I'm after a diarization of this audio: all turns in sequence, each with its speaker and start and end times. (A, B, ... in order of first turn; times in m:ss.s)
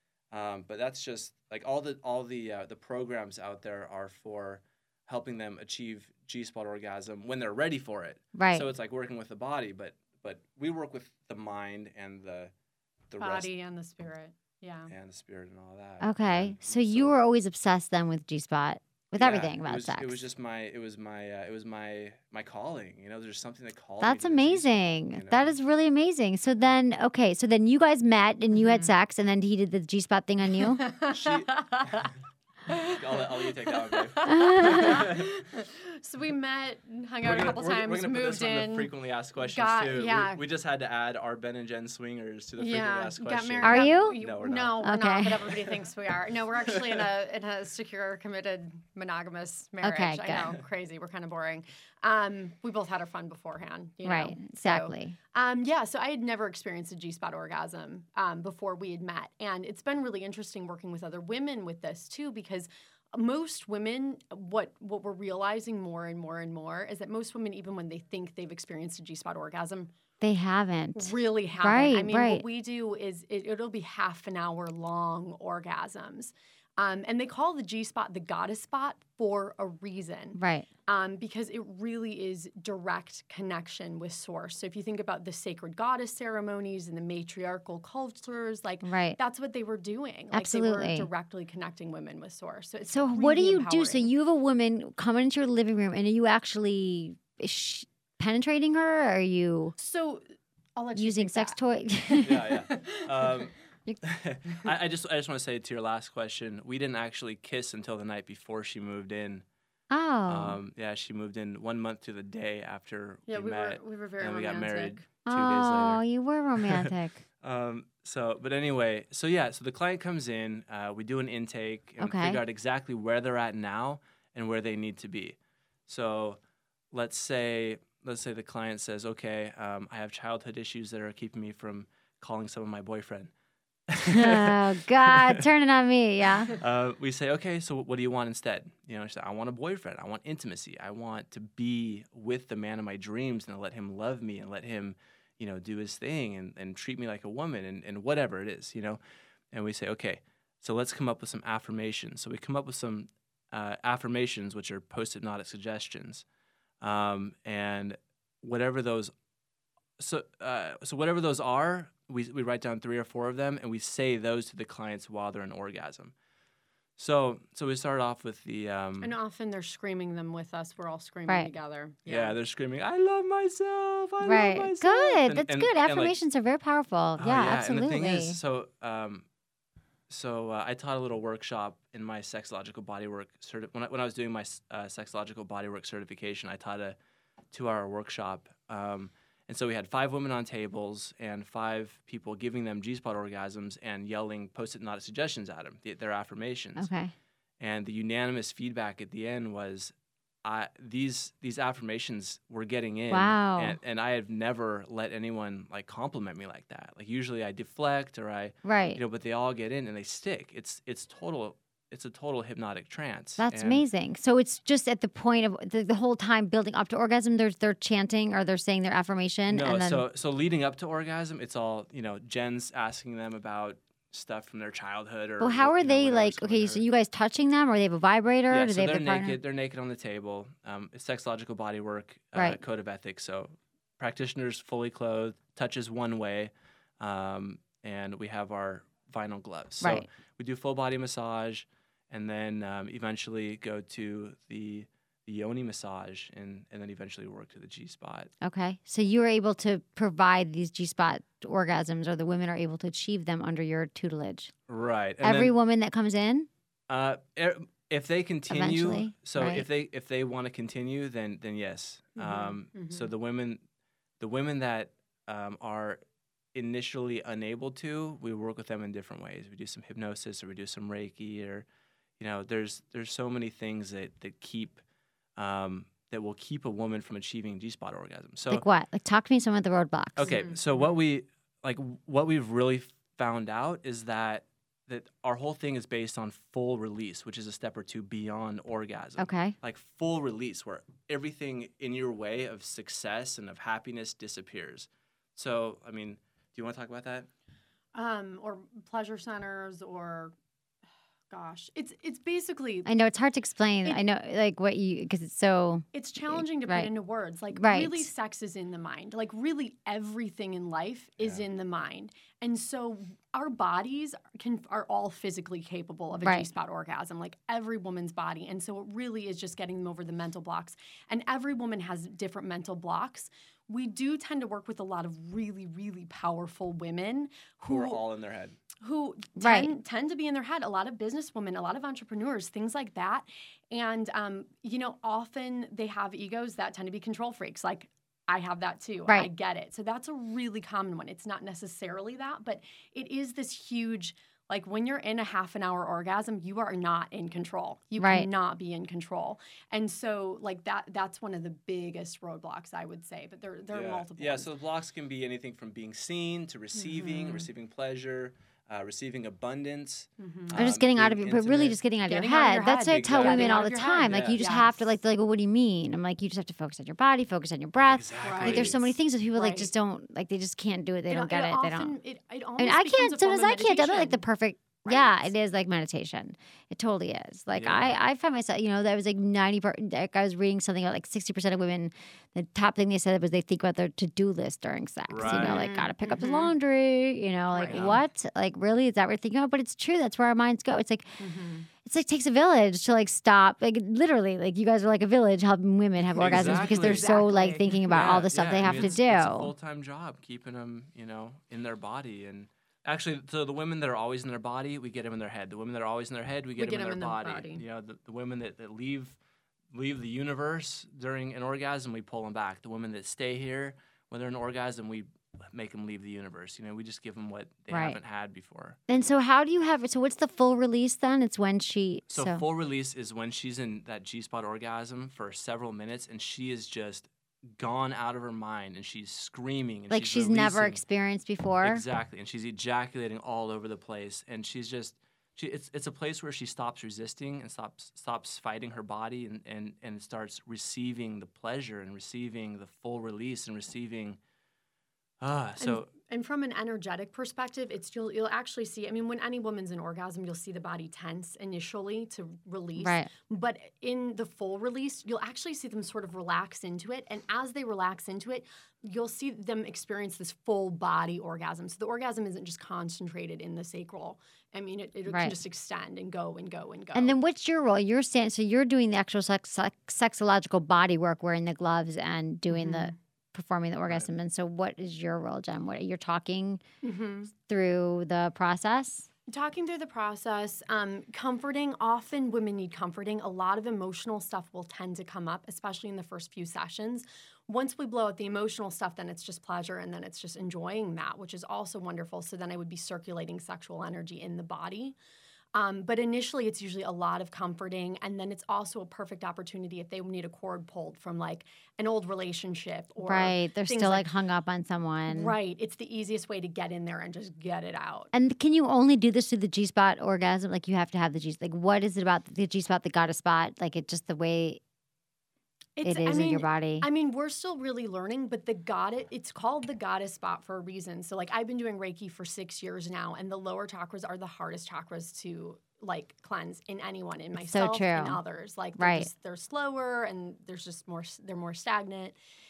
0:00.3-0:12.5 A
0:08.3-0:08.7 B
0:13.1-0:13.5 A
0:13.2-0:14.9 C
0:14.9-0:17.1 A
0:16.0-0:20.2 B
0:19.1-0:25.5 A
0:24.0-0:30.8 B
0:28.5-0:28.9 C
0:30.5-0:32.1 C
0:31.1-0:31.5 A
0:32.7-0:40.4 C
0:33.0-0:35.2 A
0:34.2-0:35.0 B
0:37.2-0:44.7 A
0:42.6-1:09.9 C
0:43.6-0:44.2 B
0:44.8-0:45.5 B
0:46.6-0:47.0 A
0:49.8-0:50.5 B
0:54.0-0:55.2 B
1:10.2-1:12.4 B
1:10.9-1:34.1 C
1:20.3-1:20.7 B
1:28.8-1:29.2 B
1:30.3-1:31.1 B
1:32.9-1:39.7 B
1:39.8-1:40.2 C
1:40.8-1:41.6 C
1:40.9-1:42.5 B
1:42.1-1:43.5 C
1:42.2-1:49.4 A
1:49.9-1:50.6 B
1:50.3-1:56.0 A
1:53.2-1:55.2 C
1:55.2-1:57.2 B
1:56.6-1:56.9 A
1:57.4-2:06.4 A
2:02.0-2:02.4 B
2:06.9-2:13.3 A
2:13.9-2:15.4 A
2:14.1-2:16.5 B
2:16.6-2:29.0 A
2:29.5-2:36.2 A
2:36.8-2:39.1 A
2:40.0-2:46.1 A
2:47.0-2:49.1 A
2:49.0-2:52.3 C
2:52.0-2:56.2 A
2:54.2-2:58.4 B
2:57.2-2:59.2 A
3:00.1-3:07.0 A
3:07.5-3:16.9 A
3:16.8-3:17.1 B
3:17.6-3:19.9 A
3:20.4-3:33.8 A
3:23.1-3:23.8 B
3:28.6-3:29.0 B
3:33.4-3:40.0 B
3:39.5-3:46.8 A
3:45.4-3:49.4 B
3:48.5-4:08.3 A
3:52.3-3:52.6 B
3:59.8-4:00.0 B
4:08.4-4:14.5 B
4:14.7-4:15.5 A
4:15.2-4:16.5 B
4:16.9-4:23.6 A
4:18.5-4:19.7 B
4:22.1-4:23.1 C
4:24.2-4:26.0 A
4:26.5-4:31.6 A
4:32.2-4:34.8 A
4:35.4-4:38.6 A
4:38.5-4:40.3 B
4:40.2-4:57.3 A
4:40.2-4:40.9 C
4:49.2-4:49.5 B
4:57.9-5:00.3 C
5:01.3-5:02.9 C
5:02.8-5:06.9 B
5:05.9-5:28.0 C
5:07.5-5:08.1 B
5:11.2-5:11.4 A
5:16.2-5:16.5 B
5:27.7-5:28.6 A
5:28.8-5:54.5 C
5:29.4-5:29.7 B
5:48.0-5:48.3 B
5:53.7-6:01.8 A
5:56.7-5:57.5 C
6:00.2-6:00.6 C
6:00.5-6:12.0 B
6:02.0-6:04.8 C
6:02.8-6:04.4 A
6:07.9-6:08.8 A
6:08.2-6:09.7 C
6:11.1-6:14.2 C
6:12.6-6:31.1 B
6:14.8-6:15.3 C
6:17.5-6:18.0 A
6:25.1-6:25.7 A
6:25.2-6:26.5 C
6:27.5-6:28.0 C
6:27.7-6:28.0 A
6:31.2-6:31.7 C
6:31.8-6:39.5 B
6:36.2-6:37.9 C
6:36.2-6:37.2 A
6:37.9-6:49.2 A
6:38.6-6:39.0 C
6:46.6-6:47.6 C
6:49.7-6:58.8 A
6:57.7-6:58.0 B
6:58.9-7:02.4 B
7:02.1-7:10.8 A
7:09.9-7:11.8 B
7:11.6-7:24.2 A
7:25.2-7:25.9 A
7:25.6-7:47.2 C
7:32.8-7:33.1 B
7:45.1-7:45.4 B
7:46.9-7:56.6 B
7:52.5-7:53.0 C
7:56.8-7:57.3 C
7:57.3-7:59.1 B
7:59.3-8:15.0 C
8:15.5-8:24.1 C
8:23.0-8:25.3 B
8:25.1-8:28.1 C
8:28.1-8:34.6 B
8:35.8-8:52.2 C
8:35.8-8:36.8 B
8:47.4-8:48.2 B
8:48.8-8:49.1 B